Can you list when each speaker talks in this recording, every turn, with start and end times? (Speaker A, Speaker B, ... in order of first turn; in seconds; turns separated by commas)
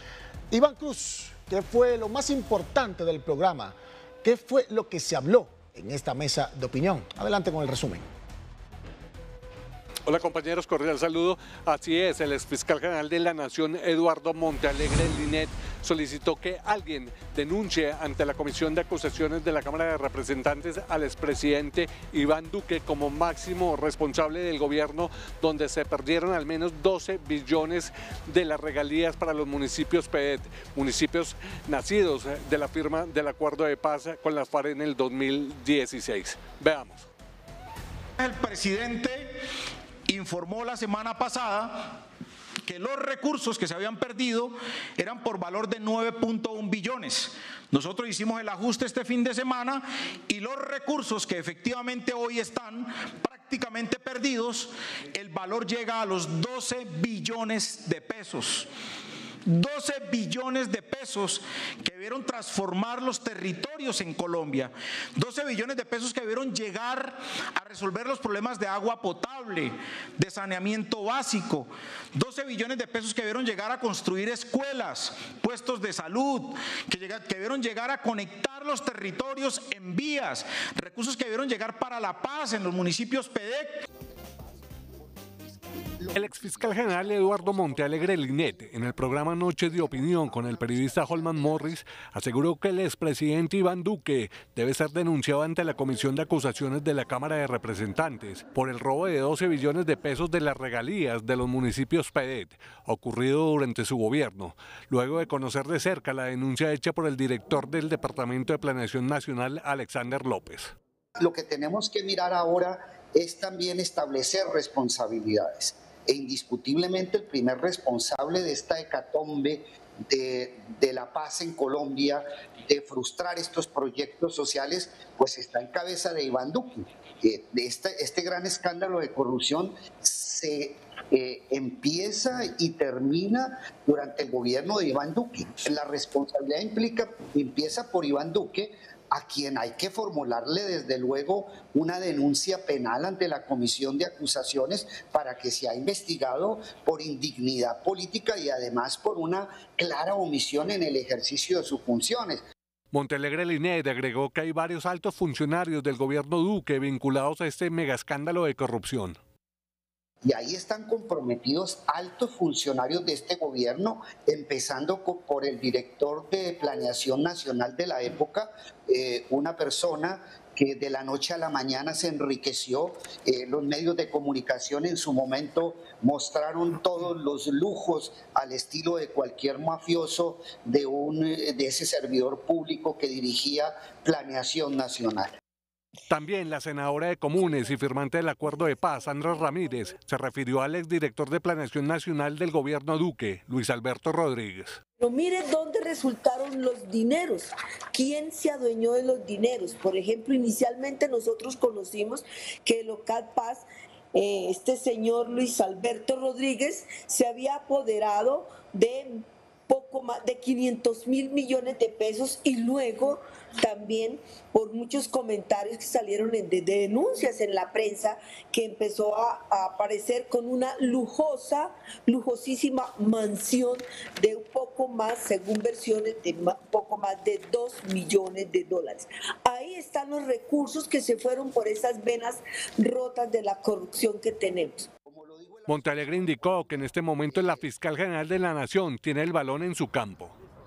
Speaker A: 0.5-8.0, Speaker B: 10.1-37.1, Speaker C: 38.2-39.4, Speaker C: 40.1-42.0, Speaker C: 42.6-58.7, Speaker C: 59.5-83.7, Speaker D: 83.9-91.8, Speaker B: 86.1-110.7, Speaker D: 111.2-152.4, Speaker B: 152.9-159.2, Speaker D: 160.2-185.3, Speaker B: 186.1-194.8, Speaker E: 189.1-189.8, Speaker E: 195.0-234.9, Speaker D: 235.1-237.6, Speaker B: 235.7-240.3